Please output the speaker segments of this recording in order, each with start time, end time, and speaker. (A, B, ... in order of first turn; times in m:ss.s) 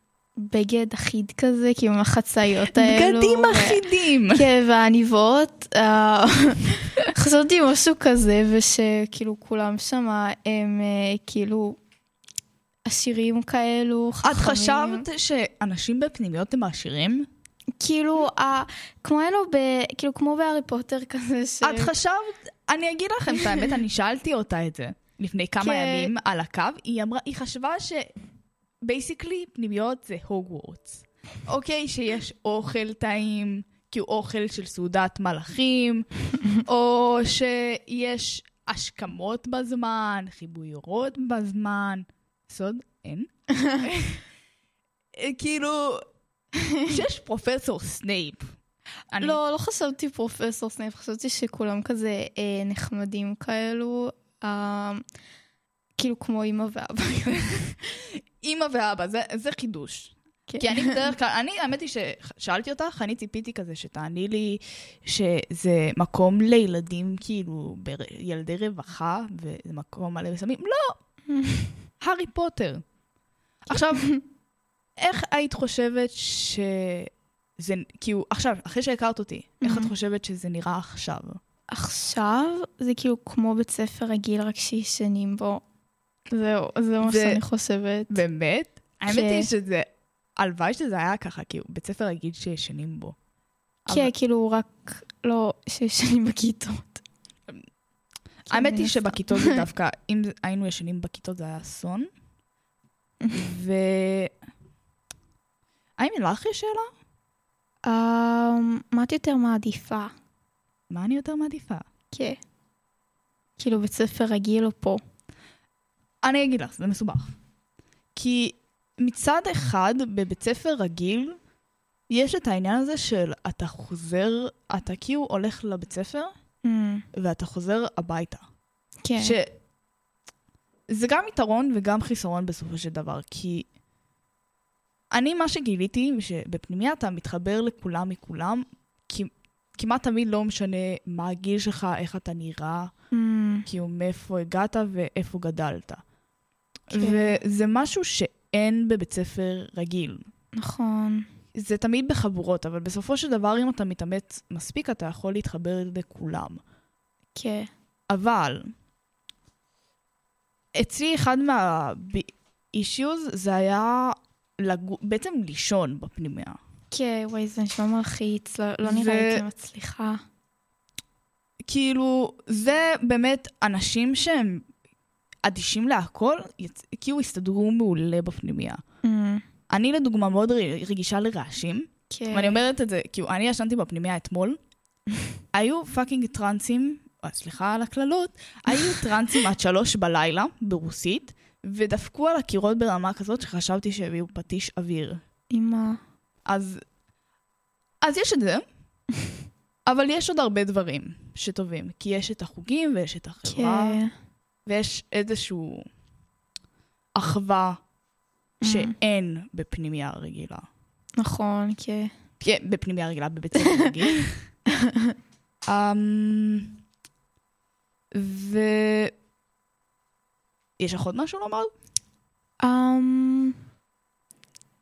0:00.4-0:03.8 A
0:02.7-0:04.4 B
0:04.3-0:11.8 A
0:12.8-0:15.0 A
0:14.2-0:17.3 B
0:17.8-0:21.9 A
0:21.6-0:28.1 B
0:25.6-0:26.1 A
0:28.8-0:44.2 B
0:45.1-0:46.1 B
0:46.9-0:48.5 B
0:49.1-0:49.4 B
0:49.2-0:55.0 A
0:56.0-0:57.7 A
0:58.4-1:11.0 B
1:00.5-1:01.1 A
1:11.3-1:11.8 A
1:12.0-1:12.8 B
1:13.7-1:14.1 B
1:15.0-1:21.4 B
1:19.6-1:19.9 A
1:21.7-1:25.6 A
1:26.3-1:28.2 A
1:27.0-1:27.4 B
1:28.1-1:33.2 B
1:29.1-1:29.5 A
1:33.8-1:34.1 B
1:33.9-1:37.0 A
1:38.5-1:39.6 A
1:38.5-1:42.1 B
1:43.3-1:44.3 B
1:46.0-1:46.9 B
1:47.8-1:50.1 A
1:50.9-1:51.8 B
1:52.1-1:52.4 A
1:53.6-1:55.0 A
1:56.2-1:57.3 B
1:58.1-2:01.4 B
2:02.1-2:06.3 B
2:06.6-2:07.0 A
2:07.1-2:08.4 B
2:09.0-2:09.4 A
2:09.2-2:09.5 B
2:10.9-2:13.7 B
2:15.1-2:22.9 B
2:23.1-2:23.6 A
2:23.6-2:26.0 B
2:26.9-2:30.3 B
2:26.9-2:27.4 A
2:30.6-2:31.3 A
2:31.5-2:36.6 B
2:37.3-2:37.7 A
2:38.1-2:38.7 B
2:40.7-2:46.6 B
2:46.9-2:50.2 A
2:48.8-2:49.4 B
2:51.6-2:54.6 B
2:55.4-2:58.8 B
2:59.0-2:59.4 A
2:59.7-3:04.6 B
3:02.1-3:02.6 A
3:05.5-3:15.2 B
3:15.5-3:16.0 A
3:16.4-3:16.8 B
3:18.0-3:18.6 B
3:19.9-3:24.0 B
3:23.4-3:24.1 A
3:24.6-3:25.8 B
3:27.1-3:27.8 B
3:28.6-3:28.9 A
3:28.6-3:30.7 B
3:31.2-3:32.1 A
3:32.4-3:34.3 B
3:34.8-3:35.1 A
3:35.6-3:36.8 B
3:38.1-3:39.1 B
3:40.8-3:41.7 B
3:42.6-3:43.6 A